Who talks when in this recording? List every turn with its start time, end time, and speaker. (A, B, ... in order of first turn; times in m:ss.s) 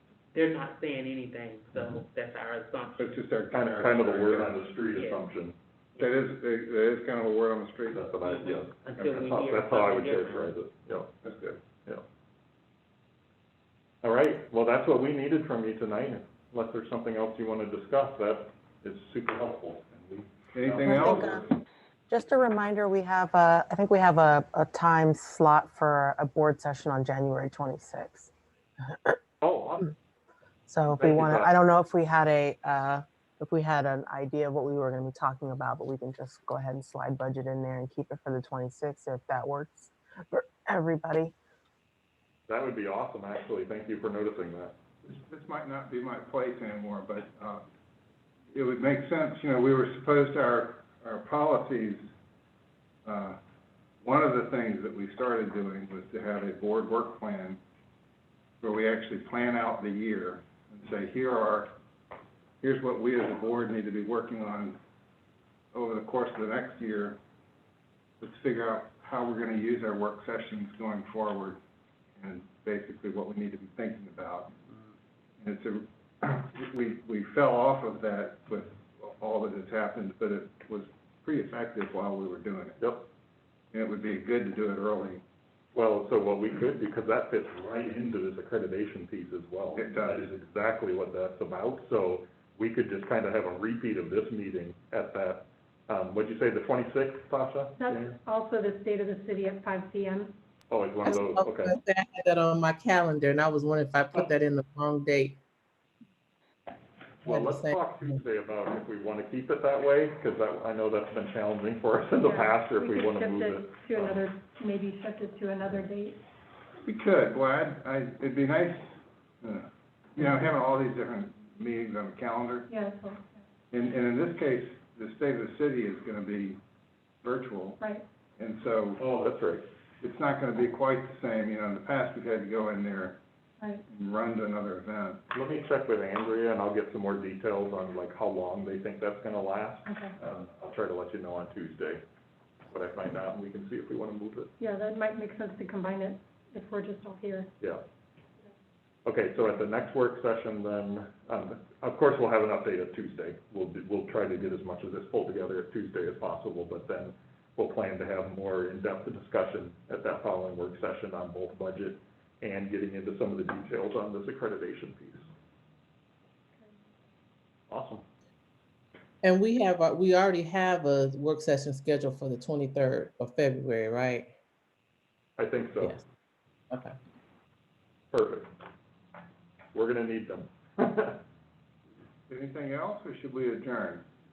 0:00.3-0:03.2 A
0:03.0-0:04.6 B
0:03.5-0:05.6 C
0:04.9-0:05.2 A
0:06.0-0:08.0 B
0:07.9-0:12.0 C
0:08.2-0:10.6 A
0:11.2-0:11.6 B
0:14.0-0:21.2 C
0:20.5-0:21.6 B
0:20.8-0:21.4 D
0:22.1-0:28.3 D
0:29.4-0:29.9 C
0:30.7-0:41.4 D
0:30.9-0:31.5 C
0:42.5-0:44.8 C
0:45.0-0:47.6 B
0:48.5-0:52.0 B
0:53.0-0:53.4 B
0:54.0-0:57.6 B
0:58.6-1:01.8 B
1:02.6-1:04.8 B
1:05.7-1:07.2 B
1:08.2-1:11.6 B
1:12.2-1:14.6 B
1:15.4-1:22.8 B
1:22.8-1:23.1 C
1:23.7-1:25.2 B
1:25.8-1:38.2 C
1:29.8-1:30.3 B
1:37.8-1:40.4 E
1:40.7-1:41.7 C
1:41.0-1:45.4 F
1:47.2-1:54.2 C
1:47.3-1:48.2 F
1:52.2-1:56.2 E
1:56.8-2:02.7 B
2:02.7-2:03.3 E
2:03.7-2:06.6 B
2:07.2-2:07.8 B
2:07.8-2:08.0 E
2:08.4-2:09.0 B
2:09.0-2:09.7 C
2:10.0-2:13.2 B
2:13.9-2:15.2 B
2:15.3-2:22.0 C
2:19.9-2:20.2 E
2:22.7-2:24.5 C
2:24.6-2:27.5 E
2:29.0-2:45.3 C
2:47.7-2:48.0 C
2:49.2-2:54.3 F
2:55.4-2:56.0 C
2:56.7-2:57.0 F
2:58.1-2:58.5 C
2:59.7-3:01.2 C
3:02.3-3:04.0 B